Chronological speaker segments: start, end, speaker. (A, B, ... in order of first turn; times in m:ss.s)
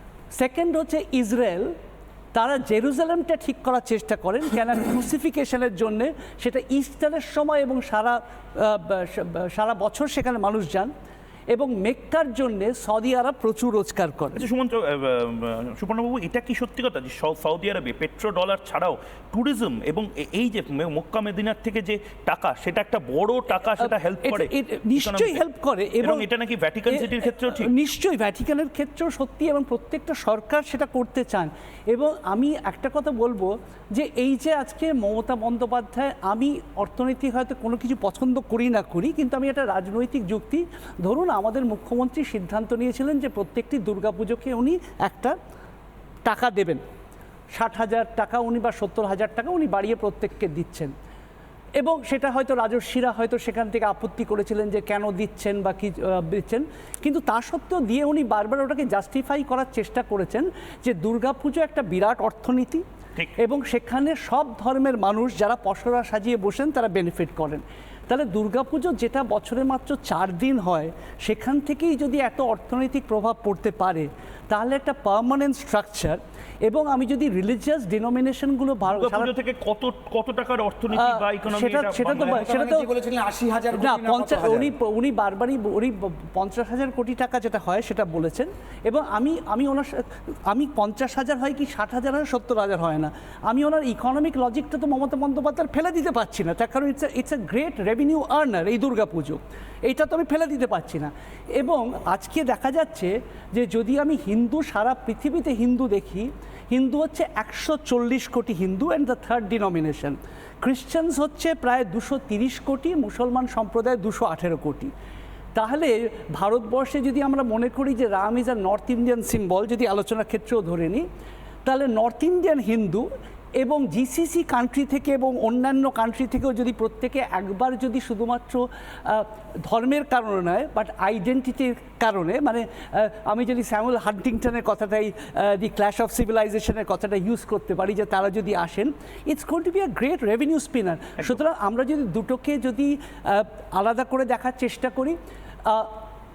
0:00.3-0:01.7 A
0:02.3-0:10.9 A
0:11.5-0:14.4 A
0:14.3-0:25.4 B
0:23.7-0:26.3 A
0:26.0-0:27.7 B
0:26.9-0:45.4 A
0:46.2-0:46.8 A
0:47.5-0:50.9 A
0:51.8-1:02.8 A
1:03.4-1:19.3 A
1:18.9-1:22.5 B
1:20.9-1:23.0 A
1:22.4-1:24.5 C
1:23.7-1:54.9 A
1:55.5-2:01.0 A
2:01.6-2:03.1 A
2:03.6-2:25.9 A